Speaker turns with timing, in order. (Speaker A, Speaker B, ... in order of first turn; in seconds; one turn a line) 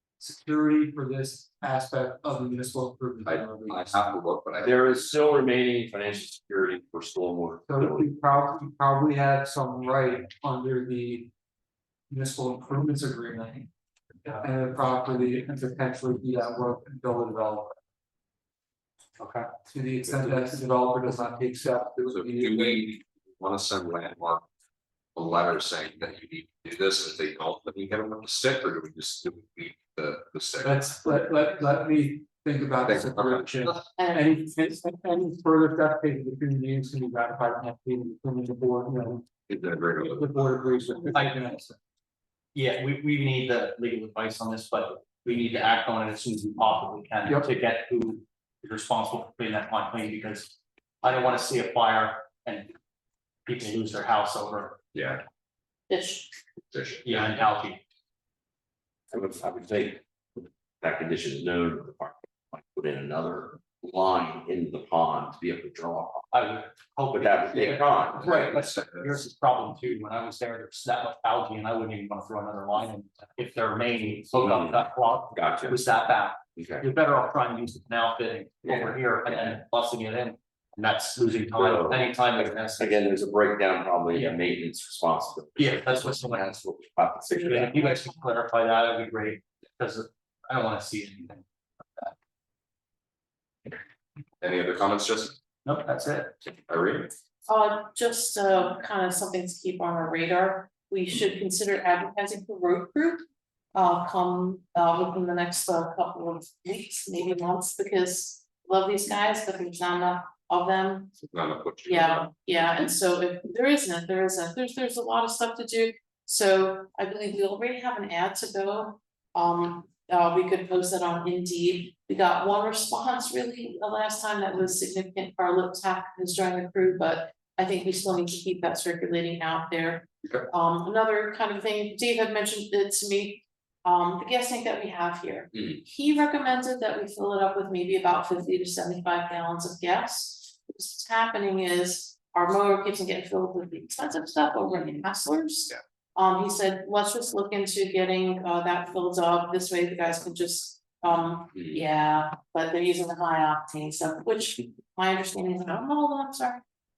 Speaker A: 0.2-4.1
Speaker B: 3.2-5.1
Speaker C: 4.6-8.1
Speaker A: 7.7-11.3
Speaker A: 12.1-13.7
Speaker A: 14.3-17.8
Speaker D: 19.2-19.5
Speaker A: 19.6-22.8
Speaker B: 20.0-20.5
Speaker B: 22.1-24.4
Speaker B: 25.1-30.9
Speaker A: 30.6-39.3
Speaker B: 32.8-33.5
Speaker E: 33.7-34.4
Speaker B: 39.5-40.3
Speaker A: 40.0-41.8
Speaker D: 41.1-41.5
Speaker D: 42.5-52.7
Speaker D: 53.5-54.8
Speaker B: 54.9-55.2
Speaker E: 55.9-56.3
Speaker B: 56.7-57.3
Speaker D: 57.0-57.8
Speaker C: 59.1-60.0
Speaker C: 60.8-66.3
Speaker D: 66.3-83.1
Speaker C: 67.1-68.5
Speaker B: 68.2-69.2
Speaker C: 74.3-75.8
Speaker C: 76.6-76.8
Speaker C: 78.6-79.6
Speaker C: 81.4-82.1
Speaker C: 82.8-87.8
Speaker D: 84.1-84.4
Speaker D: 85.6-86.5
Speaker D: 87.3-91.4
Speaker B: 94.4-95.4
Speaker D: 95.6-96.3
Speaker B: 96.7-97.1
Speaker E: 97.5-111.1
Speaker B: 111.3-112.3
Speaker E: 111.9-156.6
Speaker B: 151.5-151.8